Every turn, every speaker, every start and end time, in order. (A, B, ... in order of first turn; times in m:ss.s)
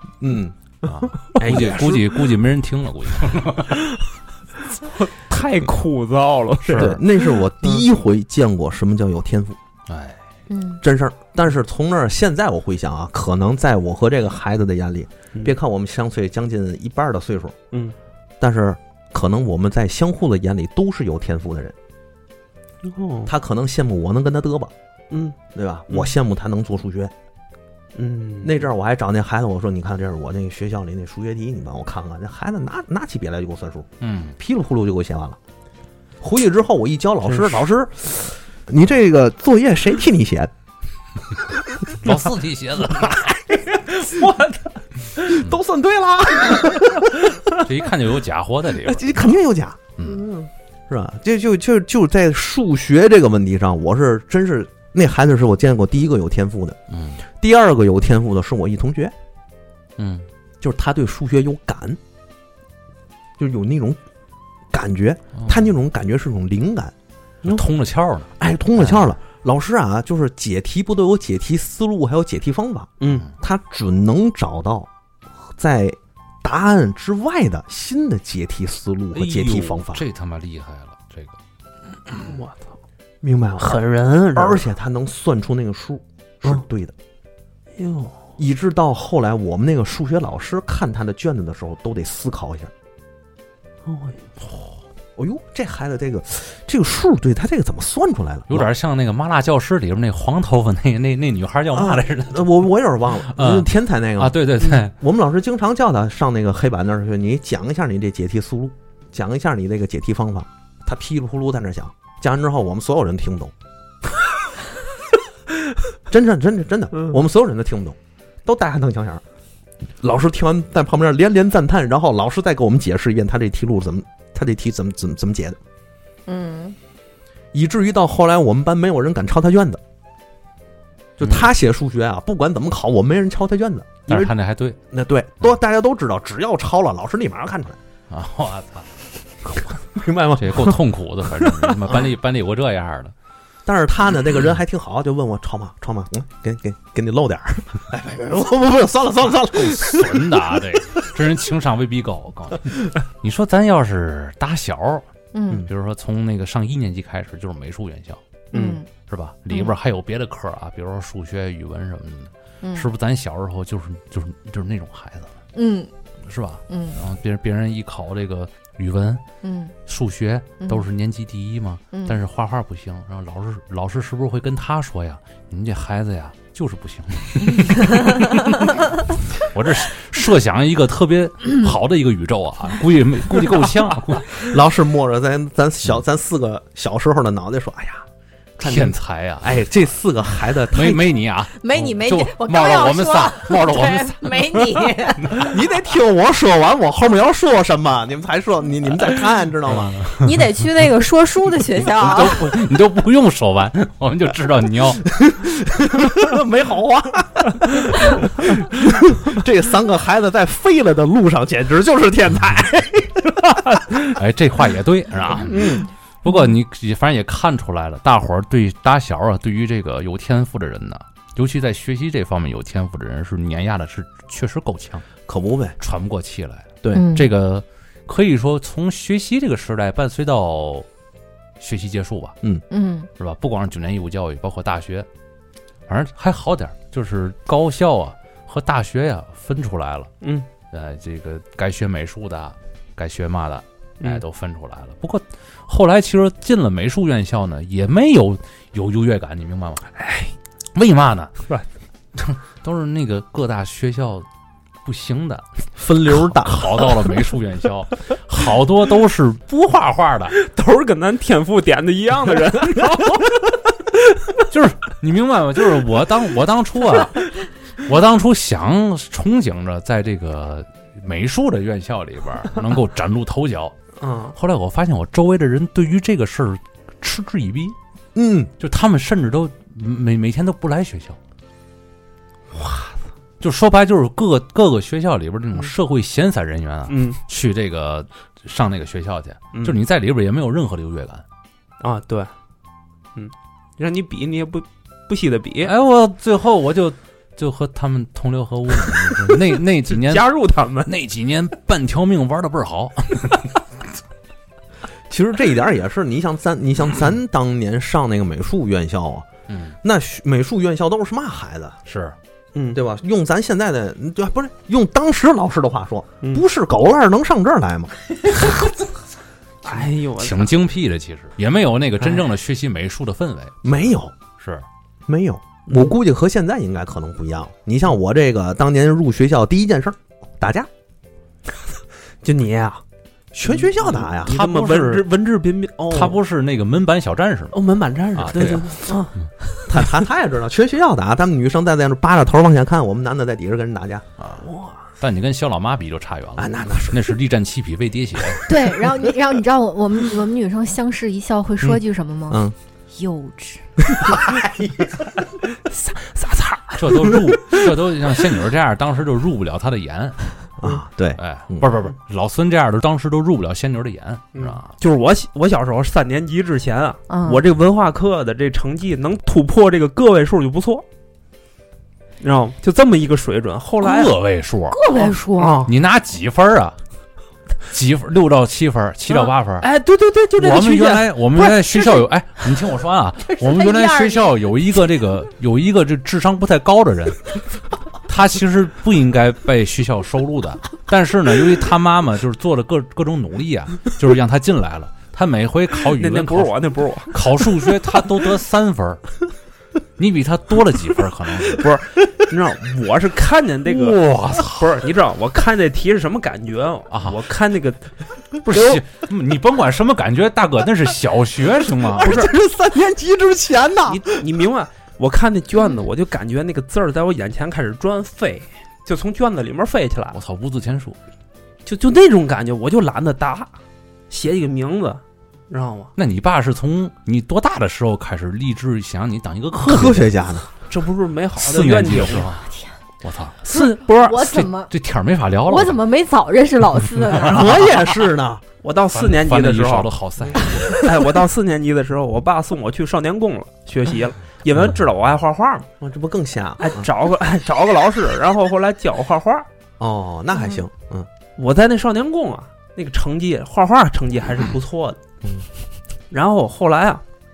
0:00.2-0:02.2 A
0:00.8-0:03.9 B
0:05.0-0:07.0 C
0:06.6-0:09.6 A
0:09.9-0:10.2 B
0:10.5-0:10.8 D
0:10.8-0:17.6 A
0:18.4-0:21.7 A
0:22.8-0:23.3 C
0:23.3-0:24.7 A
0:25.1-0:25.4 C
0:25.5-0:27.1 A
0:27.9-0:28.6 C
0:28.4-0:35.4 A
0:34.0-0:34.4 B
0:36.2-0:40.5 A
0:37.2-0:37.6 C
0:42.0-0:43.3 B
0:43.1-0:44.1 A
0:44.0-0:44.7 C
0:45.2-0:47.4 A
0:47.5-0:49.3 B
0:48.8-0:50.4 A
0:50.0-0:50.2 B
0:50.9-0:56.8 A
0:56.9-0:57.2 B
0:57.4-0:59.1 A
1:00.0-1:00.2 B
1:00.6-1:02.0 A
1:03.4-1:04.0 A
1:04.7-1:06.9 A
1:05.4-1:05.6 B
1:07.4-1:09.1 B
1:08.4-1:14.9 A
1:13.0-1:13.3 C
1:15.6-1:20.0 A
1:19.1-1:21.3 B
1:22.3-1:22.7 C
1:23.2-1:23.8 A
1:23.6-1:24.6 C
1:24.3-1:26.9 A
1:27.8-1:28.2 C
1:28.4-1:32.7 A
1:33.8-1:34.2 C
1:35.2-1:38.7 A
1:38.5-1:42.6 B
1:41.7-1:53.5 A
1:43.3-1:44.9 B
1:56.1-1:59.2 A
2:00.0-2:05.6 A
2:06.3-2:06.8 D
2:07.5-2:09.8 A
2:11.2-2:14.3 A
2:14.1-2:14.8 B
2:14.9-2:17.8 A
2:18.1-2:18.9 B
2:19.9-2:20.8 A
2:20.4-2:23.1 B
2:23.6-2:30.4 A
2:29.6-2:35.0 B
2:35.3-2:35.6 D
2:35.7-2:38.2 B
2:38.5-2:38.9 D
2:38.5-2:38.8 C
2:38.9-2:45.3 B
2:42.6-2:42.9 D
2:45.5-2:45.9 D
2:46.2-2:49.2 B
2:46.7-2:47.0 D
2:49.4-2:49.7 D
2:49.9-2:58.7 B
2:57.6-2:58.5 D
2:59.4-3:04.5 B
3:04.3-3:08.0 A
3:08.6-3:11.2 A
3:08.6-3:09.7 B
3:10.7-3:15.4 B
3:11.6-3:15.4 D
3:15.3-3:20.0 A
3:19.7-3:20.3 B
3:20.2-3:22.5 D
3:21.9-3:25.1 B
3:25.1-3:33.7 A
3:34.0-3:45.1 B
3:35.4-3:35.8 A
3:35.5-3:35.8 C
3:45.3-3:45.8 A
3:45.8-3:50.8 B
3:46.9-3:47.3 D
3:51.6-3:52.4 B
3:52.7-3:53.1 D
3:53.2-3:55.1 B
3:55.9-4:00.1 B
4:00.2-4:00.5 C
4:00.7-4:10.0 B
4:10.0-4:10.3 C
4:10.7-4:11.3 B
4:12.2-4:14.3 B
4:14.8-4:15.4 B
4:15.8-4:17.0 A
4:16.1-4:20.4 B
4:20.4-4:23.4 C
4:24.5-4:33.8 B
4:34.0-4:34.4 C
4:34.3-4:37.8 B
4:38.1-4:38.5 A
4:38.6-4:41.2 B
4:42.6-4:43.0 C
4:43.4-4:51.2 B
4:46.9-4:47.2 C
4:51.8-4:52.3 C
4:53.1-4:55.7 C
4:55.6-5:00.3 B
4:59.9-5:00.9 C
5:00.8-5:03.5 B
5:05.1-5:09.3 A
5:09.5-5:09.8 B
5:09.8-5:11.8 A
5:11.8-5:12.1 B
5:12.5-5:12.8 C
5:12.7-5:18.4 A
5:19.6-5:20.5 C
5:19.6-5:23.6 B
5:23.6-5:24.1 A
5:24.4-5:24.6 B
5:25.1-5:30.7 A
5:32.2-5:32.8 C
5:33.3-5:34.4 A
5:33.5-5:36.2 C
5:34.2-5:35.1 B
5:35.9-5:37.6 B
5:37.6-5:39.1 C
5:38.1-5:38.8 B
5:38.2-5:38.7 A
5:39.7-5:44.1 A
5:44.4-5:44.8 C
5:45.0-5:48.4 B
5:46.4-5:47.1 A
5:48.4-5:53.6 D
5:52.3-5:52.5 A
5:53.8-5:55.0 A
5:55.7-5:57.6 C
5:56.8-6:00.3 B
6:00.6-6:01.7 A
6:01.2-6:04.7 B
6:04.3-6:10.8 C
6:07.1-6:07.4 D
6:12.2-6:14.2 C
6:13.8-6:14.8 B
6:14.7-6:15.6 D
6:15.4-6:15.7 C
6:15.6-6:16.8 B
6:17.7-6:19.7 B
6:19.1-6:21.9 C
6:20.4-6:27.3 B
6:23.2-6:24.3 D
6:28.0-6:39.0 B
6:36.0-6:37.2 C
6:40.0-6:41.7 B
6:41.5-6:47.9 C
6:43.6-6:44.8 B
6:46.9-6:47.2 B
6:48.4-6:52.3 B
6:51.9-6:54.0 A
6:52.0-6:52.3 C
6:53.8-7:00.2 C
7:00.1-7:01.0 B
7:01.6-7:03.5 C
7:04.1-7:05.9 C
7:06.0-7:10.1 B
7:09.6-7:10.5 A
7:10.7-7:12.3 C
7:11.4-7:12.5 B
7:13.0-7:13.5 B
7:13.4-7:14.2 C
7:13.5-7:14.7 D
7:14.1-7:15.8 B
7:15.4-7:17.7 D
7:17.0-7:17.8 B
7:17.3-7:18.4 A
7:18.6-7:19.9 C
7:18.9-7:20.8 B
7:20.7-7:25.7 C
7:25.8-7:26.9 A
7:26.6-7:29.5 C
7:29.8-7:31.1 A
7:31.4-7:35.0 C
7:36.1-7:37.0 C